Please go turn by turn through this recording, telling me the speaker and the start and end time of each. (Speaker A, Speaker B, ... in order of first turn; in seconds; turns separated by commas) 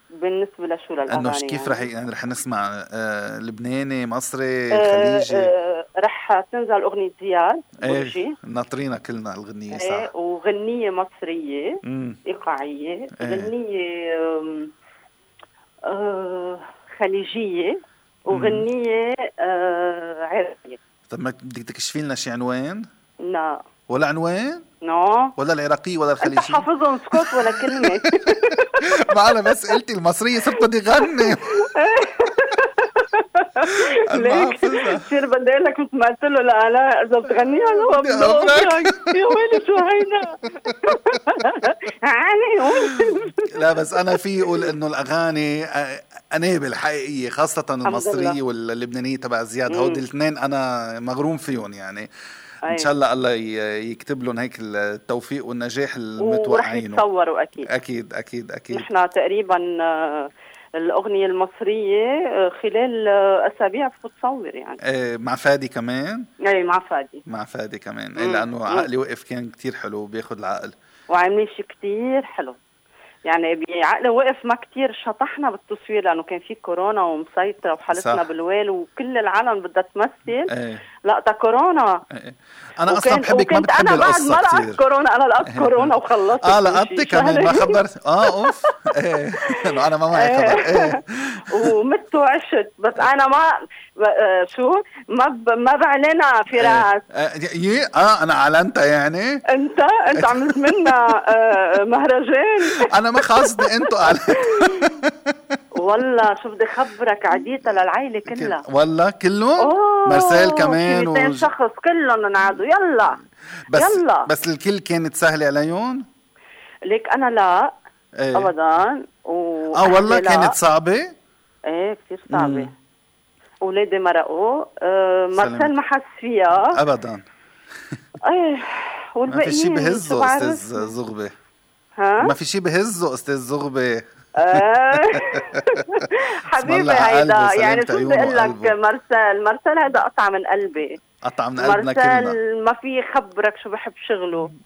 Speaker A: 0.2-1.9, Speaker B: 1.1-5.5, Speaker A: 4.7-8.3, Speaker B: 7.8-10.1, Speaker A: 9.7-14.7, Speaker B: 11.8-12.2, Speaker B: 13.2-13.5, Speaker A: 15.8-17.8, Speaker A: 18.3-20.8, Speaker B: 18.3-18.7, Speaker B: 21.1-22.9, Speaker A: 23.2-23.6, Speaker B: 23.9-24.6, Speaker A: 24.8-25.3, Speaker B: 25.4-31.4, Speaker A: 26.2-28.8, Speaker A: 31.0-44.7, Speaker B: 33.6-35.1, Speaker B: 37.7-39.1, Speaker B: 43.5-52.1, Speaker A: 47.8-48.4, Speaker A: 49.7-50.0, Speaker B: 52.7-57.0, Speaker A: 56.2-57.7, Speaker B: 57.7-58.9, Speaker A: 58.7-64.8, Speaker B: 64.8-66.2, Speaker A: 66.4-67.2, Speaker B: 67.3-70.7, Speaker A: 68.2-68.9, Speaker A: 71.1-72.5, Speaker A: 73.2-80.5, Speaker B: 77.9-78.2, Speaker B: 80.5-80.8, Speaker A: 81.0-82.0, Speaker B: 82.1-84.8, Speaker A: 82.9-89.6, Speaker B: 85.5-91.7, Speaker A: 90.1-97.0, Speaker B: 96.5-99.4, Speaker A: 99.5-105.0, Speaker B: 100.2-100.9, Speaker B: 102.8-105.6, Speaker A: 105.8-108.6, Speaker B: 108.3-111.5, Speaker A: 109.6-113.2, Speaker B: 113.7-116.0, Speaker A: 113.7-114.3, Speaker A: 116.9-117.7, Speaker B: 118.2-118.5, Speaker A: 118.3-120.5, Speaker B: 119.8-121.1, Speaker A: 121.7-122.7, Speaker B: 122.3-122.7, Speaker A: 123.6-126.7, Speaker B: 125.4-125.7, Speaker B: 126.6-127.2, Speaker A: 128.2-130.9, Speaker B: 129.3-131.3, Speaker A: 132.0-132.3, Speaker B: 132.2-136.1, Speaker A: 134.4-141.0, Speaker B: 136.6-138.7, Speaker B: 141.2-142.4, Speaker A: 141.6-144.5